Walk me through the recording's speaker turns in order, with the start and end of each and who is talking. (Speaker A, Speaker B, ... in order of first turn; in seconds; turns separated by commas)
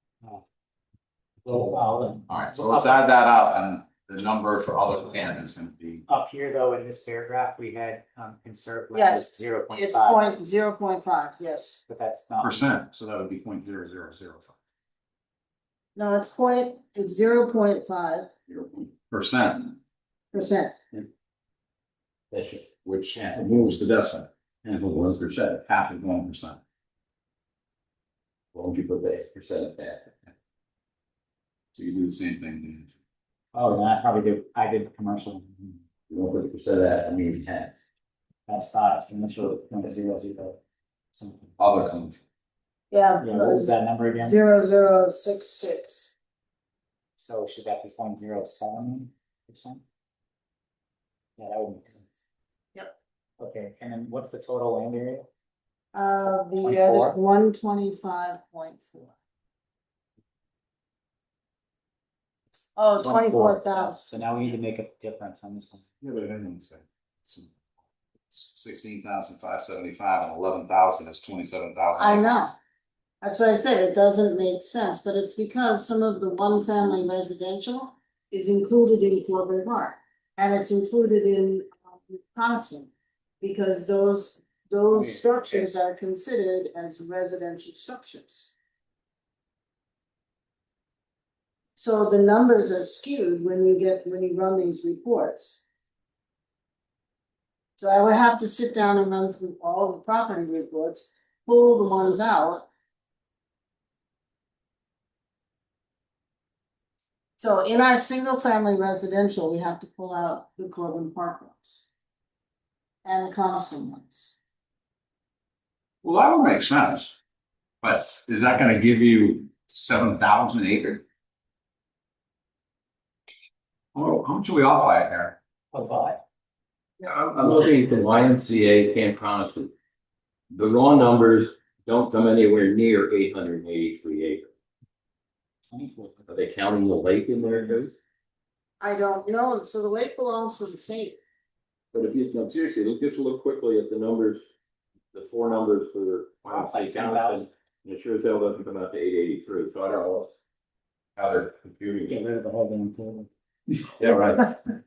Speaker A: 1.4-3.0, Speaker B: 2.3-6.0, Speaker A: 6.1-10.2, Speaker C: 8.9-11.8, Speaker A: 11.9-12.7, Speaker B: 12.4-14.6, Speaker C: 15.9-18.3, Speaker B: 18.5-19.8, Speaker C: 20.3-20.8, Speaker D: 22.3-23.5, Speaker B: 22.8-24.3, Speaker D: 24.6-25.4, Speaker B: 25.4-26.6, Speaker D: 28.5-30.1, Speaker B: 31.7-32.9, Speaker A: 33.5-35.8, Speaker D: 36.1-37.7, Speaker A: 38.5-40.6, Speaker A: 41.1-41.5, Speaker B: 41.6-42.2, Speaker C: 42.9-46.1, Speaker A: 43.2-44.4, Speaker A: 47.2-49.8, Speaker A: 51.4-52.2, Speaker A: 53.4-55.3, Speaker C: 55.9-59.1, Speaker A: 56.6-57.2, Speaker C: 62.8-64.0, Speaker A: 63.0-65.8, Speaker B: 66.0-67.5, Speaker B: 68.3-72.4, Speaker C: 72.0-72.5, Speaker C: 73.2-88.5, Speaker A: 84.9-85.8, Speaker C: 91.8-95.6, Speaker C: 97.8-102.7, Speaker C: 107.4-111.9, Speaker C: 113.0-114.4, Speaker B: 116.0-117.2, Speaker B: 117.8-121.0, Speaker B: 123.9-125.4, Speaker A: 125.7-126.2, Speaker D: 127.0-129.7, Speaker D: 130.5-134.5, Speaker A: 135.7-136.2, Speaker D: 136.3-137.9, Speaker A: 137.5-137.9, Speaker C: 138.8-141.2, Speaker D: 141.9-144.5, Speaker D: 145.1-150.3, Speaker A: 146.5-147.5, Speaker D: 151.2-152.1, Speaker A: 152.1-153.3, Speaker D: 154.0-154.4